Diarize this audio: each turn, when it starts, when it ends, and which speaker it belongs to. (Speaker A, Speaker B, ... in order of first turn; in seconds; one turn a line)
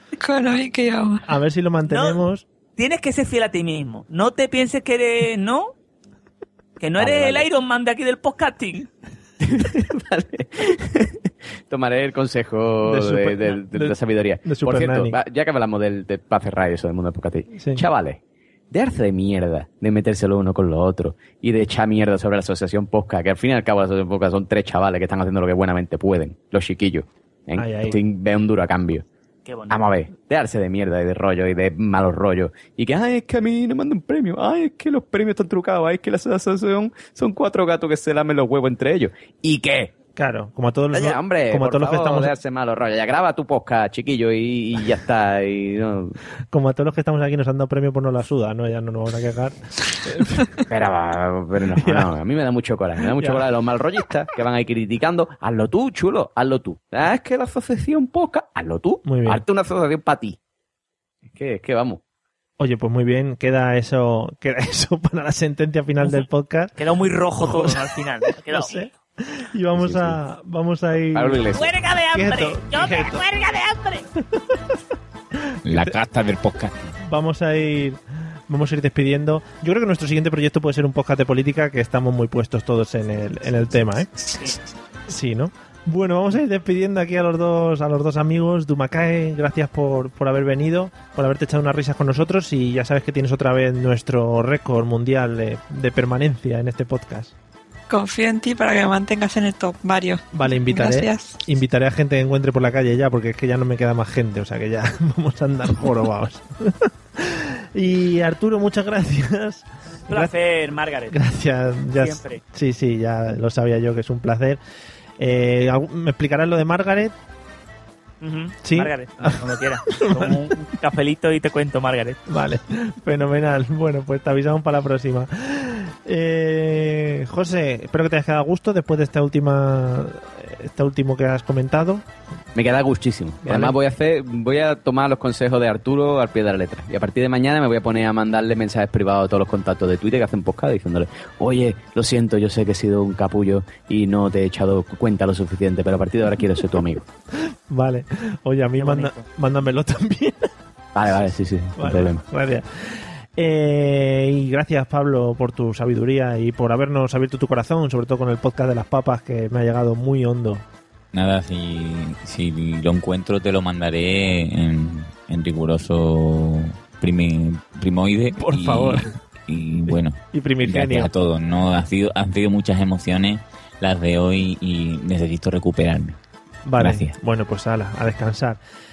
Speaker A: 0.2-1.2
Speaker B: 1.2-2.5
Speaker C: 1.9-2.2
Speaker C: 2.8-5.7
Speaker C: 6.8-8.9
Speaker D: 7.0-7.5
Speaker D: 9.4-18.2
Speaker B: 12.8-15.2
Speaker B: 17.5-17.9
Speaker D: 18.7-29.1
Speaker B: 27.6-28.0
Speaker C: 29.4-29.8
Speaker D: 29.7-39.9
Speaker B: 40.2-42.3
Speaker D: 40.9-46.2
Speaker B: 46.5-50.6
Speaker D: 50.7-60.4
Speaker B: 51.7-52.1
Speaker B: 53.2-53.5
Speaker B: 59.0-59.4
Speaker D: 61.3-62.0
Speaker B: 62.6-66.7
Speaker C: 66.0-68.8
Speaker B: 67.4-67.9
Speaker B: 68.4-71.5
Speaker D: 69.8-70.2
Speaker D: 71.1-71.7
Speaker C: 71.5-74.1
Speaker B: 72.1-73.2
Speaker B: 74.3-74.8
Speaker E: 75.7-76.9
Speaker B: 75.7-76.0
Speaker B: 77.0-84.3
Speaker B: 85.1-97.3
Speaker A: 97.9-101.4
Speaker B: 100.3-110.3
Speaker C: 110.1-111.2
Speaker B: 111.1-114.6
Speaker C: 112.0-112.4
Speaker B: 115.2-117.2
Speaker C: 118.2-122.2
Speaker B: 118.6-120.4
Speaker B: 122.3-132.1
Speaker D: 132.6-147.1
Speaker B: 133.4-133.8
Speaker B: 147.4-150.5
Speaker C: 148.8-149.2
Speaker D: 150.9-152.2
Speaker B: 151.8-160.7
Speaker E: 161.1-176.2
Speaker B: 168.4-169.1
Speaker B: 170.3-171.1
Speaker B: 176.7-178.6
Speaker E: 176.8-177.1